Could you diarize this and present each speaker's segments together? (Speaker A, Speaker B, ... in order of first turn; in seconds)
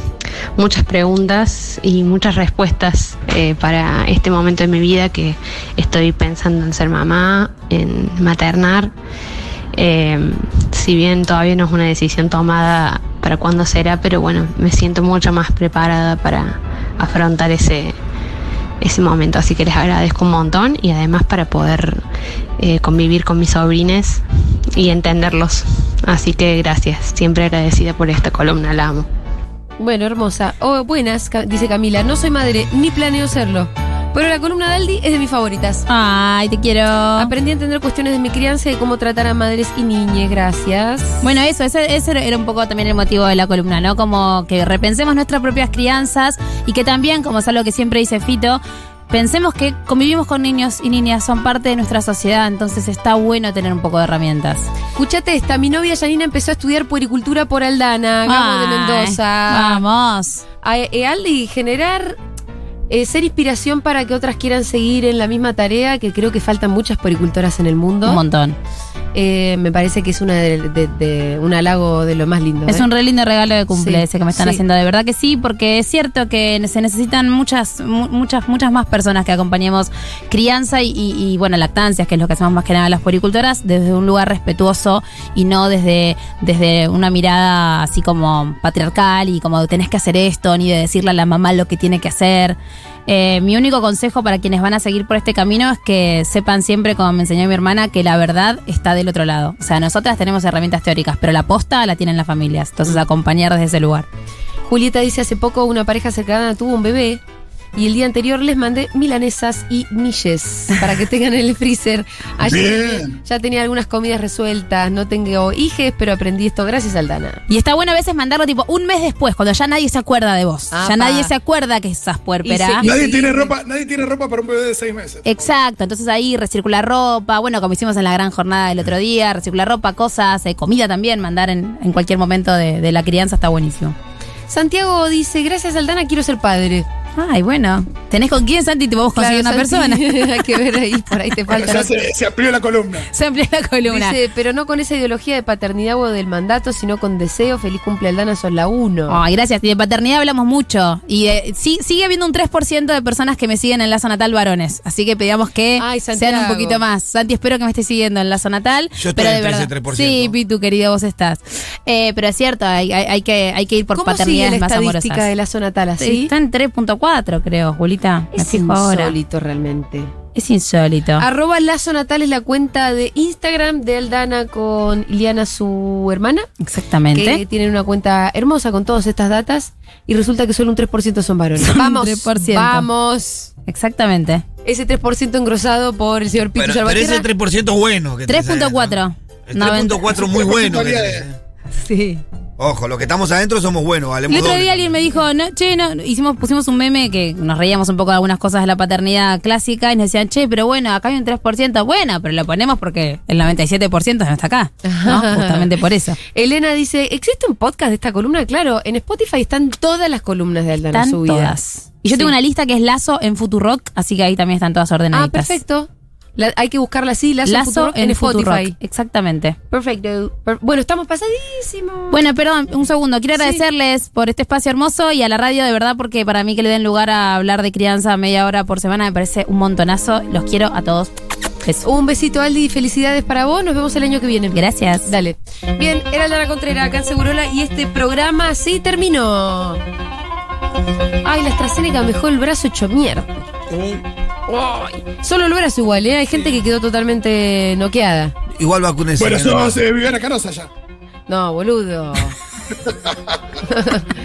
Speaker A: 0.6-8.9, 9.7-18.0, 18.8-22.0, 22.6-24.2, 24.8-29.1
Speaker B: 29.8-35.8, 37.1-41.1, 55.0-59.8, 60.6-62.2, 62.9-68.2, 69.1-72.9, 73.7-74.6, 104.7-107.2, 107.7-117.4, 120.7-121.3, 122.4-123.5, 134.5-136.8, 139.2-141.9, 143.8-149.2, 155.8-156.8, 163.9-166.3, 168.3-170.1, 171.2-176.5, 177.1-183.5, 184.6-187.2, 191.8-192.2, 204.8-205.7, 206.3-211.6, 215.1-218.7, 219.7-222.2, 223.3-223.6, 231.8-239.8, 241.2-243.4, 244.5-248.3, 251.3-252.3, 253.7-254.1
Speaker C: 35.9-37.3, 41.2-54.7, 58.2-60.4, 68.0-68.6, 72.7-104.1, 117.5-122.8, 125.2-133.9, 137.2-140.0, 143.1-144.2, 149.1-165.3, 166.0-169.1, 170.3-171.2, 176.6-177.4, 181.6-182.9, 183.7-184.4, 188.3-190.2, 194.3-206.2, 210.9-215.6, 217.4-219.6, 222.1-231.8, 234.5-235.1
Speaker D: 112.4-113.2, 122.8-125.5, 141.5-143.1, 190.1-191.3, 249.2-250.7, 252.8-253.4
Speaker E: 159.0-160.3, 186.6-191.3, 192.6-195.0, 248.5-249.8